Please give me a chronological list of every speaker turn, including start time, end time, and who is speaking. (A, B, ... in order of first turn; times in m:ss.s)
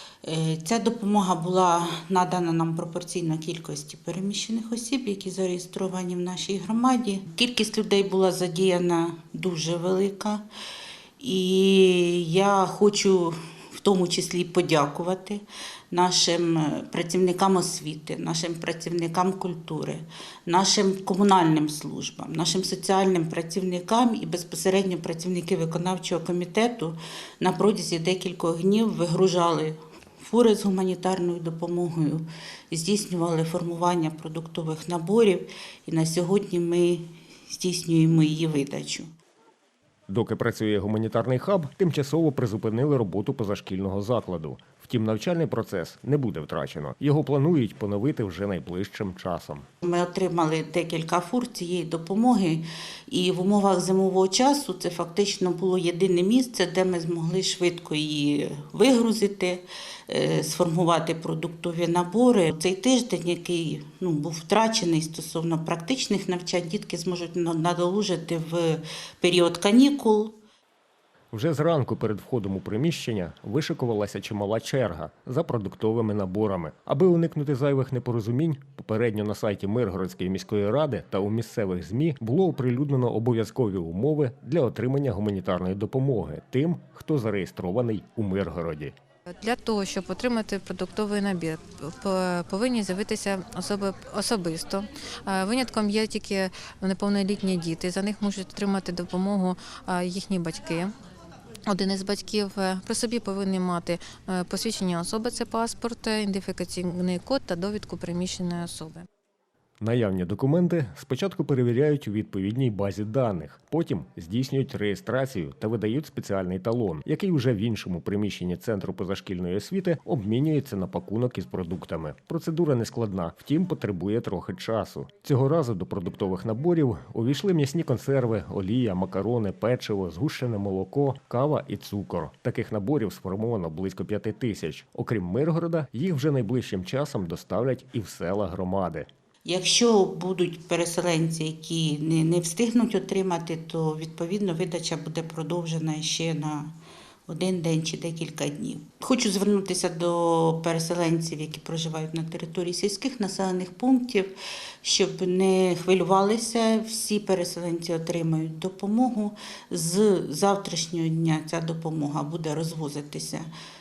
0:00.2-0:10.4 A
0:11.2-0:39.1 A
0:40.1-0:49.7 B
0:49.8-1:10.4 A
1:11.3-1:28.9 B
1:29.4-1:40.9 C
1:41.7-1:49.1 C
1:49.8-2:19.1 B
2:19.4-2:26.7 A
2:27.3-2:43.5 A